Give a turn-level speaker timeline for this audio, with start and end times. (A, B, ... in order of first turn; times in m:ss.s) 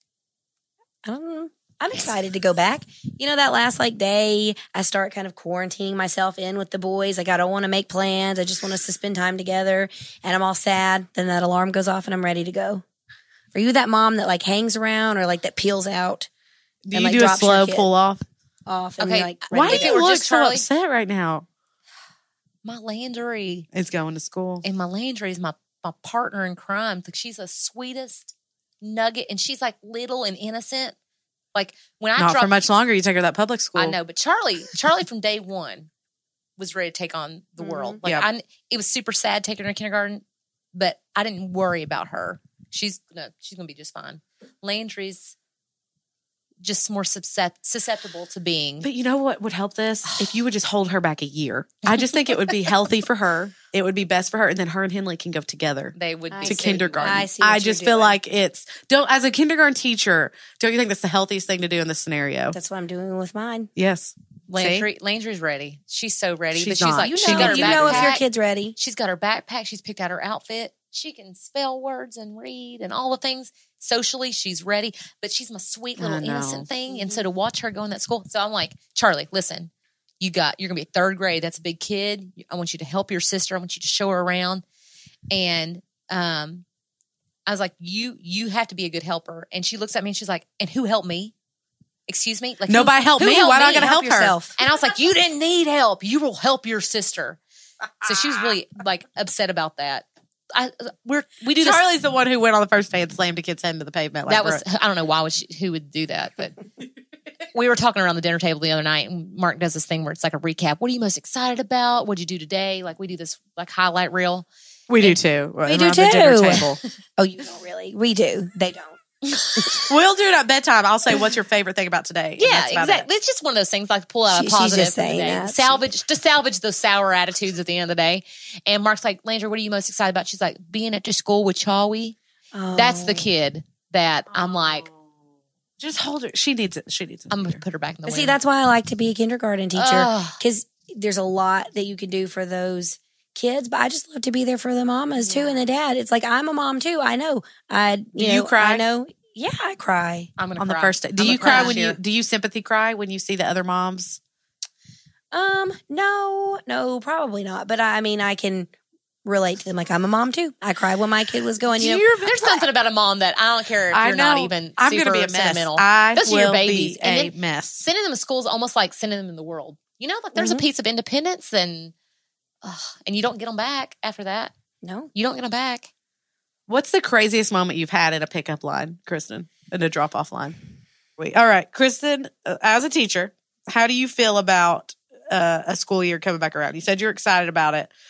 0:01.0-0:12.8 A
0:13.5-0:16.3 A
0:16.9-0:18.2 B
0:16.9-0:17.9 A
0:18.7-0:20.0 A
0:19.0-0:20.6 C
0:19.5-0:21.4 B
0:22.6-0:23.7 C
0:23.7-0:24.6 B
0:24.6-0:31.0 C
0:31.6-0:32.5 C
0:32.2-0:34.0 B
0:33.8-0:35.9 C
0:36.6-0:40.2 C
0:37.6-0:38.0 A
0:40.7-0:45.4 C
0:46.6-0:48.9 C
0:48.8-1:02.6 B
0:50.1-0:50.4 C
0:55.9-0:57.2 C
0:56.3-0:58.2 A
1:02.5-1:03.7 A
1:03.8-1:04.9 B
1:04.5-1:08.2 C
1:06.5-1:08.1 B
1:07.1-1:08.8 A
1:08.8-1:24.6 C
1:16.0-1:16.7 B
1:16.9-1:17.2 A
1:25.3-1:26.6 C
1:27.5-1:31.3 C
1:32.1-1:33.9 C
1:32.7-1:34.4 B
1:33.8-1:34.6 A
1:34.6-1:37.4 C
1:38.0-1:41.8 C
1:41.6-1:44.6 B
1:44.3-1:46.6 C
1:47.5-1:54.5 C
1:54.9-1:56.8 B
1:55.6-1:59.0 A
1:59.6-2:03.1 B
2:02.4-2:12.2 C
2:04.3-2:05.8 A
2:12.5-2:13.3 A
2:12.8-2:14.9 C
2:14.3-2:15.0 B
2:15.8-2:17.6 B
2:17.3-2:18.4 C
2:18.1-2:30.3 A
2:19.7-2:20.4 C
2:28.2-2:28.8 B
2:30.4-2:32.0 C
2:30.6-2:34.2 B
2:31.2-2:31.8 A
2:35.3-2:38.7 A
2:39.2-2:42.0 A
2:41.7-2:42.7 B
2:42.2-2:51.9 C
2:43.9-2:47.9 B
2:50.4-2:50.6 A
2:52.6-2:54.5 C
2:54.8-2:55.1 A
2:55.2-2:55.9 C
2:56.7-3:00.6 B
3:01.2-3:07.9 B